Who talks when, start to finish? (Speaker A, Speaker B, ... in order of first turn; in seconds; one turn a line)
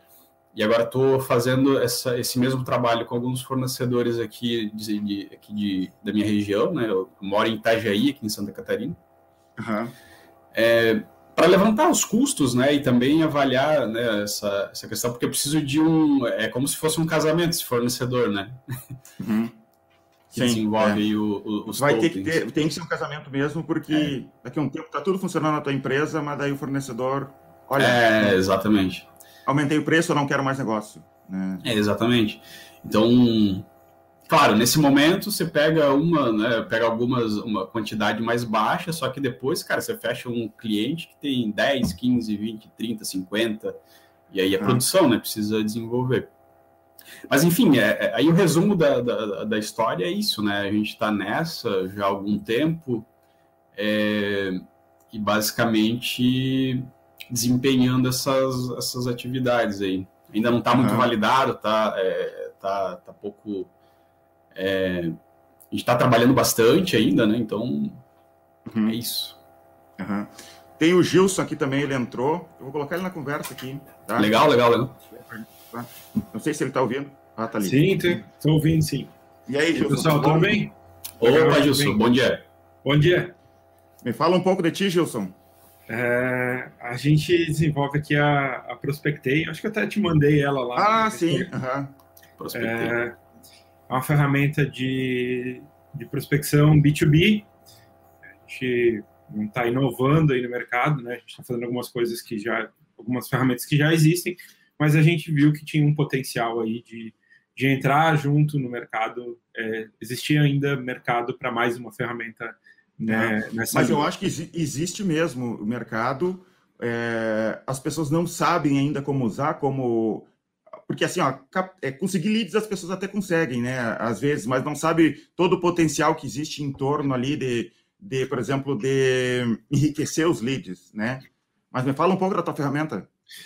Speaker A: 0.5-9.0
Speaker B: 9.6-9.9
Speaker A: 10.5-18.6
Speaker B: 19.2-19.5
Speaker A: 20.3-22.4
Speaker B: 20.3-21.0
Speaker B: 21.7-28.4
Speaker A: 27.8-29.1
Speaker B: 29.4-31.6
Speaker A: 31.6-33.7
Speaker A: 34.3-43.8
Speaker A: 44.3-46.3
Speaker A: 47.3-53.1
Speaker A: 53.7-63.7
Speaker B: 60.7-61.1
Speaker A: 64.5-65.2
Speaker A: 65.7-68.0
Speaker B: 68.7-69.0
Speaker A: 68.9-69.4
Speaker B: 70.0-74.3
Speaker A: 74.2-75.0
Speaker B: 75.1-78.2
Speaker C: 77.6-79.1
Speaker B: 79.5-80.7
Speaker C: 79.7-82.0
Speaker A: 81.2-82.4
Speaker C: 82.8-83.3
Speaker B: 84.0-85.3
Speaker C: 85.9-91.5
Speaker B: 90.8-91.9
Speaker A: 92.4-93.0
Speaker C: 92.5-93.2
Speaker C: 93.9-97.5
Speaker C: 98.4-114.1
Speaker B: 113.0-120.3
Speaker B: 120.9-133.1